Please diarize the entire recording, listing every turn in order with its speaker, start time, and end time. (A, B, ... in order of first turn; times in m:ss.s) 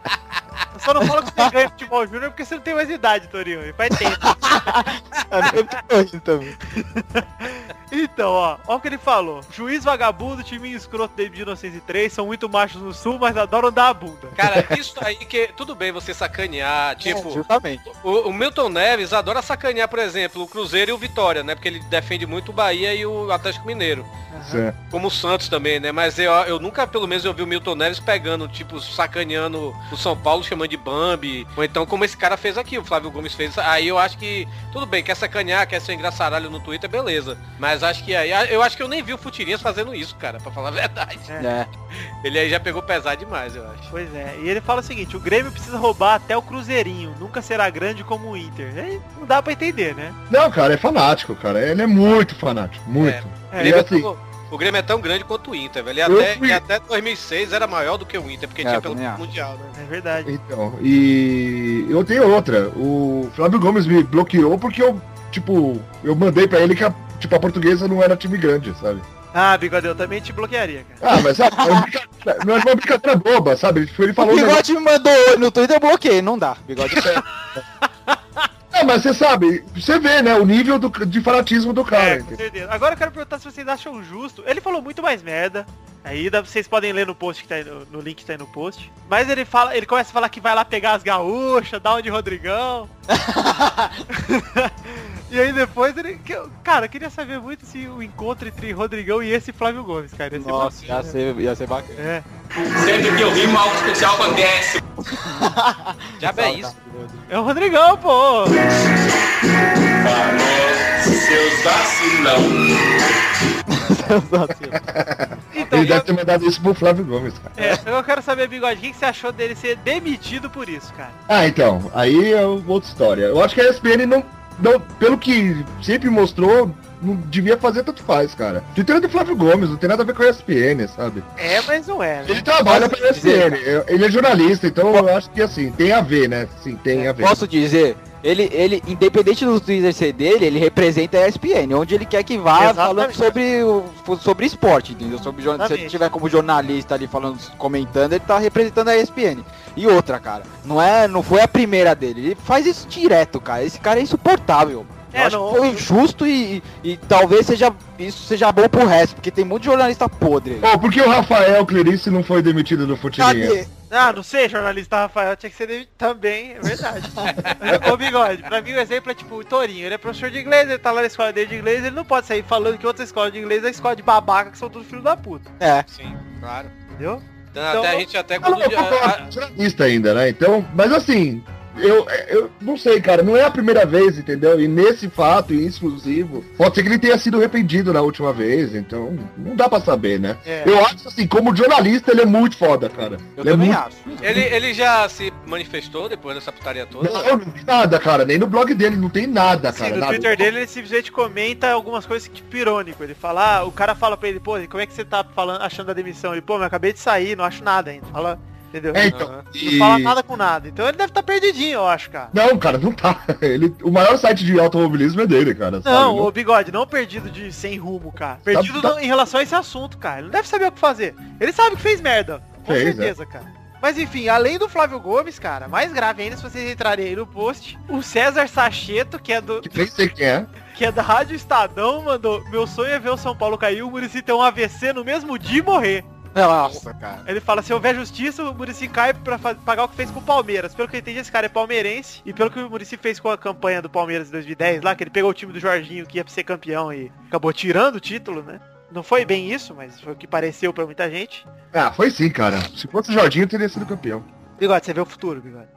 0:00.8-0:04.8 A
0:04.2-0:06.6 B
0:06.8-0:14.4 A
0:14.4-0:17.4 C
0:17.0-0:17.8 B
0:18.0-0:24.1 C
0:24.3-0:24.6 A
0:24.4-0:24.8 D
0:24.9-0:41.3 C
0:41.4-0:41.7 B
0:42.1-0:43.9 C
0:43.9-0:50.2 A
0:50.3-0:54.1 D
0:53.0-0:59.7 C
0:53.5-0:53.8 A
0:56.1-0:56.6 D
0:58.6-0:59.2 B
0:59.8-1:00.3 A
1:00.2-1:09.1 D
1:09.3-1:11.0 A
1:11.0-1:14.6 D
1:11.5-1:11.9 B
1:14.2-1:17.2 B
1:18.7-1:22.4 D
1:21.9-1:32.9 A
1:33.1-1:34.0 B
1:34.1-1:41.2 A
1:40.4-1:42.1 B
1:42.0-1:42.2 A
1:42.6-1:44.8 E
1:45.1-1:47.1 B
1:46.2-1:47.0 C
1:47.3-1:48.6 A
1:50.0-1:52.8 E
1:53.7-1:54.8 B
1:54.8-1:57.6 D
1:55.5-1:56.1 A
1:57.6-2:01.2 A
2:01.3-2:11.3 D
2:11.4-2:12.5 A
2:12.2-2:17.4 D
2:12.7-2:13.6 B
2:17.2-2:40.7 B
2:22.5-2:23.2 A
2:25.6-2:26.0 A
2:35.1-2:35.8 A
2:40.6-2:43.6 D
2:43.2-2:43.7 B
2:43.9-2:55.5 A
2:55.6-2:55.9 B
2:55.9-2:56.7 C
2:56.9-2:58.0 A
2:57.5-2:59.2 C
2:58.4-3:13.8 D
3:10.4-3:10.8 A
3:13.4-3:14.4 B
3:14.2-3:17.3 C
3:17.0-3:20.5 D
3:19.7-3:32.3 A
3:28.9-3:30.2 D
3:29.1-3:29.4 C
3:32.3-3:36.3 D
3:35.8-3:49.8 A
3:38.5-3:39.0 D
3:42.6-3:43.2 D
3:49.6-3:50.5 D
3:50.7-3:56.1 A
3:56.4-3:57.2 B
3:57.2-4:11.5 A
4:11.7-4:14.2 D
4:14.6-4:15.7 A